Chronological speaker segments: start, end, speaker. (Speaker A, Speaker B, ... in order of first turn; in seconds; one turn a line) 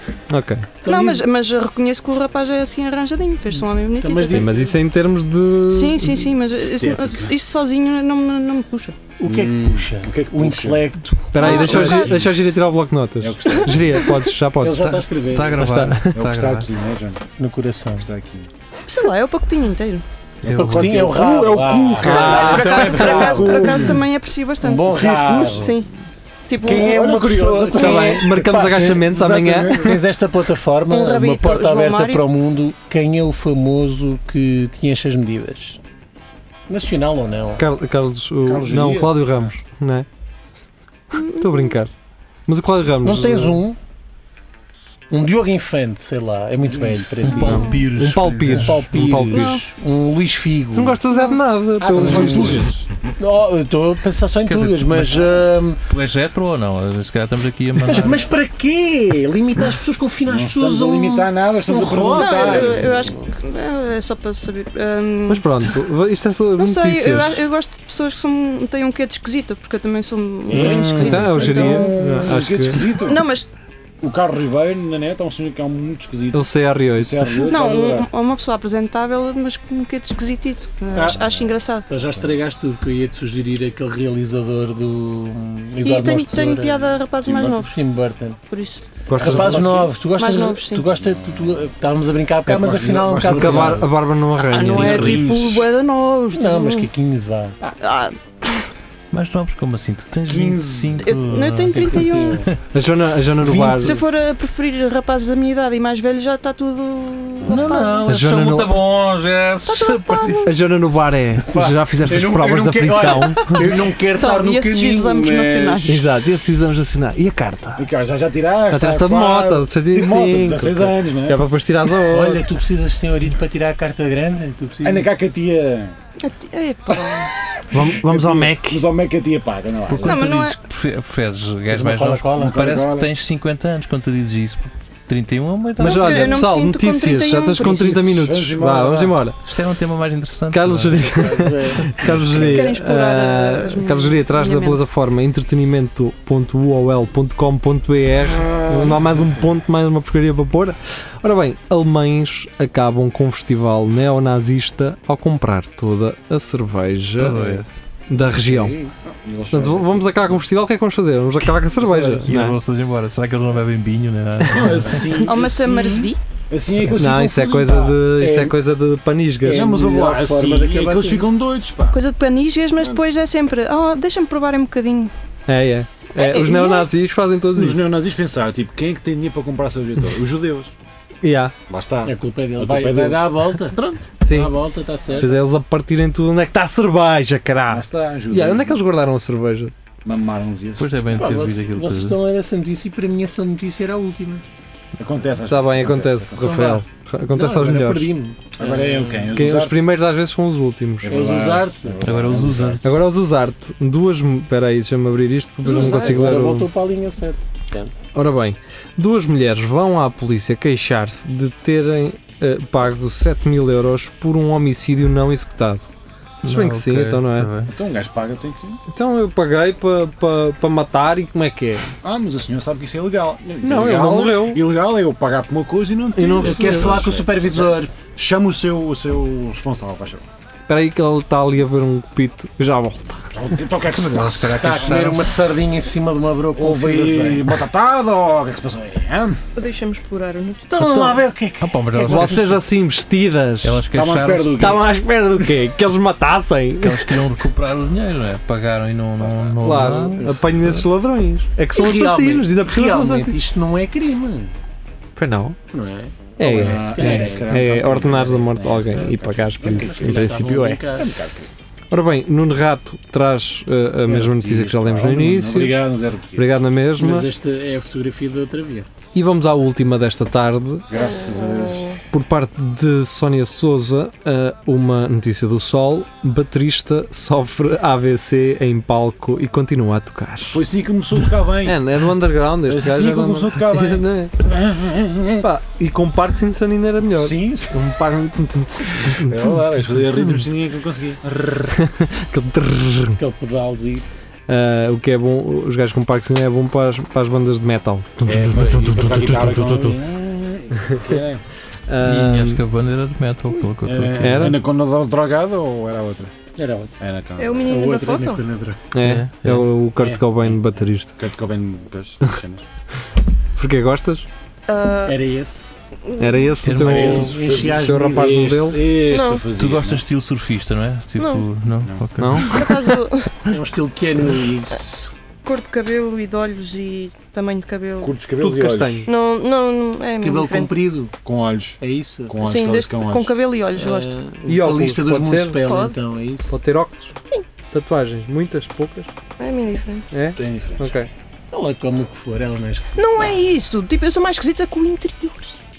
Speaker A: 0.3-0.7
Speaker B: 0.8-1.2
Speaker C: 0.8-4.6
Speaker B: 4.0-4.8
Speaker A: 4.3-6.4
Speaker C: 5.7-8.9
Speaker D: 6.6-7.3
Speaker B: 9.2-11.8
Speaker D: 9.2-12.4
Speaker A: 11.3-15.0
Speaker C: 11.4-12.3
Speaker D: 13.2-14.1
Speaker C: 13.5-14.2
Speaker B: 14.6-15.6
Speaker E: 14.7-16.7
Speaker A: 15.6-16.2
Speaker D: 16.1-17.2
Speaker B: 17.4-18.1
Speaker D: 18.0-18.5
Speaker C: 18.9-20.0
Speaker E: 20.4-21.1
Speaker D: 20.5-24.0
Speaker B: 20.6-24.1
Speaker A: 22.0-23.4
Speaker C: 22.1-25.9
Speaker B: 24.6-25.8
Speaker D: 24.9-25.5
Speaker C: 26.5-26.9
Speaker B: 26.6-29.0
Speaker D: 26.6-30.0
Speaker A: 26.7-30.0
Speaker B: 29.7-35.8
Speaker C: 30.9-32.2
Speaker B: 36.7-37.7
Speaker A: 37.6-40.1
Speaker D: 38.5-39.5
Speaker A: 41.1-41.9
Speaker C: 41.2-41.7
Speaker A: 42.5-43.6
Speaker B: 43.0-43.8
Speaker B: 45.1-51.0
Speaker D: 46.6-47.2
Speaker E: 47.2-49.1
Speaker C: 47.2-47.9
Speaker A: 47.4-49.6
Speaker C: 49.2-49.7
Speaker A: 50.7-52.7
Speaker C: 51.1-51.4
Speaker D: 51.8-53.0
Speaker B: 52.0-52.6
Speaker B: 53.2-55.8
Speaker E: 54.5-58.3
Speaker B: 57.8-63.1
Speaker D: 60.2-63.0
Speaker C: 62.1-65.7
Speaker A: 65.3-67.5
Speaker C: 66.6-71.9
Speaker D: 70.5-73.2
Speaker A: 70.6-72.8
Speaker C: 72.9-73.5
Speaker D: 74.0-78.1
Speaker A: 76.3-77.2
Speaker C: 77.5-81.9
Speaker B: 80.9-81.3
Speaker D: 80.9-81.6
Speaker B: 81.9-88.4
Speaker C: 85.8-87.8
Speaker D: 87.2-87.7
Speaker C: 88.5-89.0
Speaker A: 89.1-89.9
Speaker D: 89.1-89.8
Speaker B: 89.1-93.9
Speaker C: 89.7-90.9
Speaker D: 90.8-91.7
Speaker D: 92.5-93.9
Speaker A: 93.2-95.1
Speaker C: 94.5-96.9
Speaker D: 94.7-95.7
Speaker B: 96.3-97.6
Speaker C: 97.8-98.7
Speaker E: 99.1-102.6
Speaker D: 100.3-101.2
Speaker C: 101.0-102.5
Speaker B: 101.8-102.5
Speaker A: 102.7-104.0
Speaker B: 103.6-103.9
Speaker C: 103.7-108.1
Speaker E: 107.5-110.5
Speaker B: 107.5-108.0
Speaker A: 108.1-108.8
Speaker C: 109.7-110.5
Speaker A: 110.5-113.6
Speaker B: 111.5-116.0
Speaker C: 113.7-116.1
Speaker A: 115.8-117.9
Speaker D: 117.8-121.4
Speaker A: 118.7-122.4
Speaker B: 122.0-125.1
Speaker D: 124.8-126.0
Speaker C: 126.2-127.3
Speaker A: 127.7-128.9
Speaker D: 127.8-130.3
Speaker E: 129.9-136.4
Speaker C: 130.0-130.6
Speaker B: 131.7-132.6
Speaker D: 132.4-133.1
Speaker C: 135.8-138.0
Speaker A: 135.8-139.4
Speaker D: 137.7-139.2
Speaker E: 139.4-142.1
Speaker A: 140.5-157.5
Speaker B: 141.0-142.6
Speaker C: 142.4-144.8
Speaker D: 148.2-149.2
Speaker E: 157.2-157.7
Speaker D: 157.3-157.6
Speaker A: 158.1-158.8
Speaker B: 158.5-158.9
Speaker D: 158.6-160.4
Speaker A: 159.5-162.6
Speaker D: 161.8-162.3
Speaker B: 162.0-162.3
Speaker E: 162.3-165.2
Speaker D: 164.4-168.6
Speaker C: 165.2-166.2
Speaker A: 166.8-169.7
Speaker B: 169.4-171.3
Speaker D: 169.4-172.0
Speaker C: 171.9-175.1
Speaker A: 175.5-177.9
Speaker C: 176.1-176.9
Speaker D: 177.6-180.7
Speaker A: 181.2-181.5
Speaker D: 181.7-184.0
Speaker B: 182.1-185.3
Speaker A: 184.2-184.5
Speaker D: 185.1-185.4
Speaker A: 185.2-189.7
Speaker D: 187.7-188.8
Speaker D: 190.0-191.0
Speaker E: 190.8-192.2
Speaker B: 191.2-194.4
Speaker D: 195.0-196.8
Speaker A: 195.5-198.1
Speaker B: 196.4-199.4
Speaker D: 198.6-199.8
Speaker A: 199.3-201.4
Speaker D: 201.0-203.0
Speaker B: 201.1-202.0
Speaker E: 202.0-203.0
Speaker A: 202.8-206.7
Speaker B: 205.6-207.9
Speaker D: 205.8-206.4
Speaker A: 208.1-215.9
Speaker E: 216.4-217.7
Speaker A: 216.5-217.5
Speaker D: 217.7-218.8
Speaker A: 218.9-221.8
Speaker D: 222.0-230.2
Speaker A: 223.6-224.6
Speaker A: 226.1-227.0
Speaker B: 226.4-227.9
Speaker A: 230.7-233.3
Speaker D: 233.3-235.0
Speaker E: 233.8-235.4
Speaker B: 234.6-237.5
Speaker D: 236.6-239.4
Speaker C: 239.6-240.8
Speaker B: 240.7-242.7
Speaker A: 240.7-241.3
Speaker E: 241.6-242.6
Speaker A: 242.1-243.8
Speaker E: 243.6-244.7
Speaker D: 243.9-244.9
Speaker A: 244.6-247.2
Speaker E: 246.8-250.8
Speaker D: 249.2-249.9
Speaker A: 249.6-253.4
Speaker B: 249.8-250.3
Speaker B: 251.7-254.5
Speaker A: 255.2-255.6
Speaker B: 255.7-257.5
Speaker A: 256.4-260.8
Speaker D: 256.4-261.5
Speaker B: 259.7-261.1
Speaker A: 261.9-265.8
Speaker D: 264.1-266.6
Speaker A: 266.4-267.3
Speaker B: 267.0-268.9
Speaker A: 269.1-270.9
Speaker D: 270.9-271.9
Speaker C: 270.9-272.0
Speaker A: 272.1-280.6
Speaker D: 280.5-282.1
Speaker A: 281.6-284.3
Speaker D: 282.6-285.5
Speaker A: 285.4-289.6
Speaker D: 287.1-287.8
Speaker D: 289.2-291.8
Speaker A: 291.7-293.2
Speaker B: 293.2-294.1
Speaker A: 294.5-299.9
Speaker D: 298.2-301.4
Speaker E: 299.0-299.5
Speaker A: 301.9-302.6
Speaker E: 302.0-304.5
Speaker D: 303.9-306.3
Speaker A: 304.2-304.6
Speaker B: 306.6-306.9
Speaker D: 307.0-307.7
Speaker C: 307.4-308.4
Speaker B: 307.6-308.8
Speaker A: 308.9-311.2
Speaker E: 309.0-309.7
Speaker D: 310.0-312.6
Speaker A: 313.6-314.3
Speaker C: 314.7-315.2
Speaker B: 315.1-315.7
Speaker C: 316.1-316.6
Speaker A: 316.2-318.8
Speaker E: 316.6-317.3
Speaker B: 316.8-318.8
Speaker D: 316.8-320.1
Speaker C: 319.0-319.5
Speaker E: 319.6-323.0
Speaker C: 321.2-321.5
Speaker A: 322.2-322.5
Speaker C: 322.4-323.5
Speaker B: 323.5-325.1
Speaker C: 325.4-328.1
Speaker D: 328.0-329.1
Speaker A: 328.4-329.1
Speaker C: 329.1-330.7
Speaker B: 330.2-331.1
Speaker D: 331.2-333.3
Speaker B: 331.8-332.4
Speaker C: 332.4-334.1
Speaker B: 333.7-336.6
Speaker A: 334.5-335.6
Speaker C: 335.6-336.0
Speaker A: 336.5-337.2
Speaker A: 337.7-339.1
Speaker C: 339.4-340.1
Speaker A: 340.1-341.1
Speaker D: 340.4-340.9
Speaker B: 341.5-343.4
Speaker C: 343.0-345.6